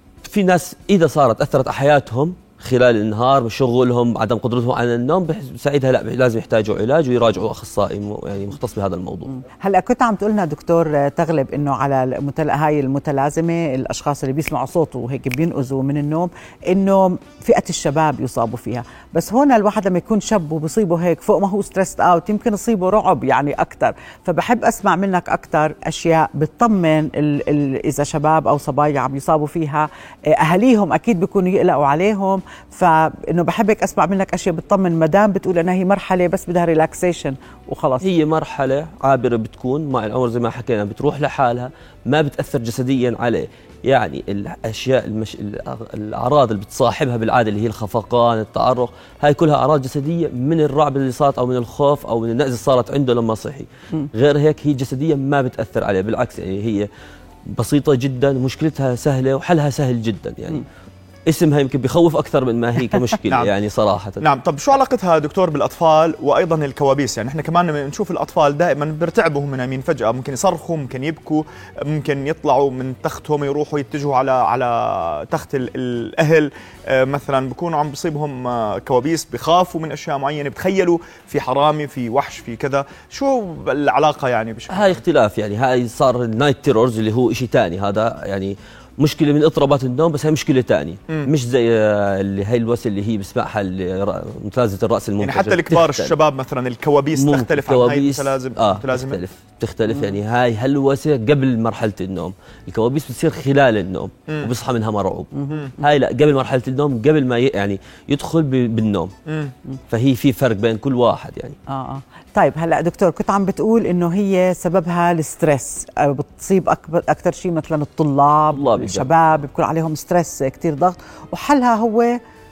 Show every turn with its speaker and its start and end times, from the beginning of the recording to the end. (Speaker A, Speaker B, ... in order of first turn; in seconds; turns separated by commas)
Speaker A: 0.2-9.3, Speaker B: 9.6-38.0, Speaker A: 38.0-56.9, Speaker A: 57.5-60.6, Speaker A: 61.3-64.2, Speaker C: 64.2-85.0, Speaker A: 84.7-96.2, Speaker C: 95.2-99.2, Speaker A: 97.2-109.1, Speaker C: 109.3-109.5, Speaker A: 109.9-111.6, Speaker B: 111.7-122.2, Speaker A: 118.5-119.1